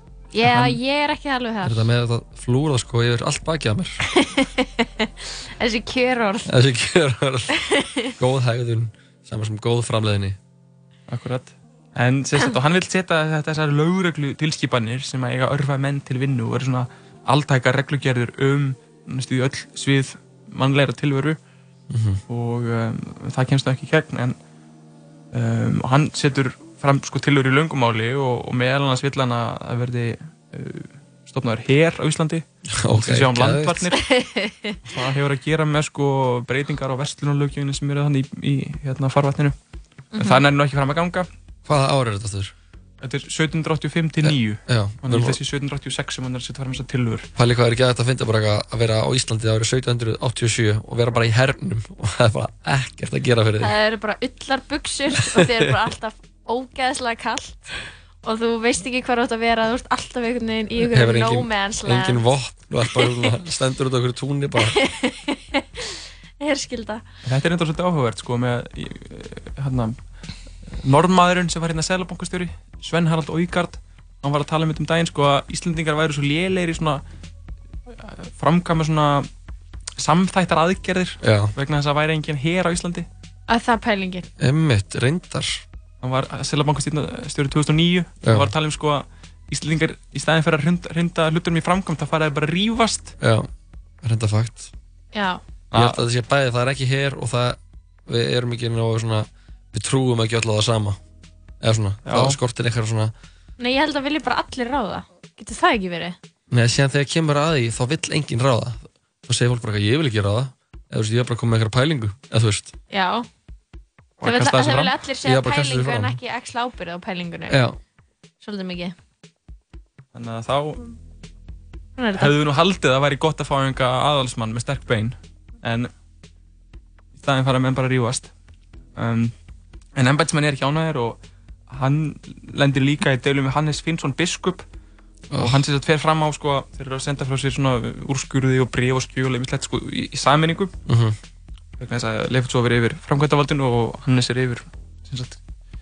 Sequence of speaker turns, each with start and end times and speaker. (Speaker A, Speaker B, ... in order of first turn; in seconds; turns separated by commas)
Speaker A: 0.3-1.9, Speaker B: 0.4-0.8, Speaker B: 1.6-4.0, Speaker A: 4.1-6.5, Speaker B: 6.4-10.4, Speaker A: 7.7-8.1, Speaker C: 11.1-21.4, Speaker B: 21.9-22.2, Speaker C: 22.3-24.4, Speaker C: 25.3-34.0, Speaker B: 32.7-33.9, Speaker A: 34.0-34.8, Speaker C: 34.9-39.5, Speaker C: 40.1-41.3, Speaker A: 40.1-40.4, Speaker B: 41.6-42.5, Speaker C: 43.0-47.3, Speaker B: 44.2-45.4, Speaker B: 47.4-53.7, Speaker A: 53.6-62.2, Speaker B: 60.8-64.8, Speaker A: 62.8-63.3, Speaker A: 64.6-67.0, Speaker C: 67.2-70.0, Speaker C: 70.7-77.0, Speaker C: 77.9-79.3, Speaker C: 80.0-83.1, Speaker B: 81.2-81.5, Speaker A: 83.5-84.3, Speaker B: 84.4-85.6, Speaker C: 86.0-93.2, Speaker B: 88.2-88.5, Speaker B: 93.2-93.5, Speaker B: 94.0-94.7, Speaker A: 95.1-95.4, Speaker C: 95.7-96.0, Speaker B: 95.7-101.0, Speaker B: 101.6-103.1, Speaker C: 102.0-102.4, Speaker A: 103.6-106.2, Speaker B: 106.5-112.7, Speaker A: 112.9-113.3, Speaker C: 114.2-115.0, Speaker A: 114.2-117.6, Speaker B: 115.2-116.2, Speaker B: 117.5-117.8, Speaker A: 118.4-118.9, Speaker C: 120.1-121.0, Speaker A: 122.0-122.3, Speaker C: 122.2-125.9, Speaker C: 127.2-128.3, Speaker C: 128.9-129.3, Speaker C: 129.9-134.7, Speaker B: 135.3-135.6, Speaker C: 135.3-140.7, Speaker B: 140.9-141.2, Speaker C: 141.8-145.4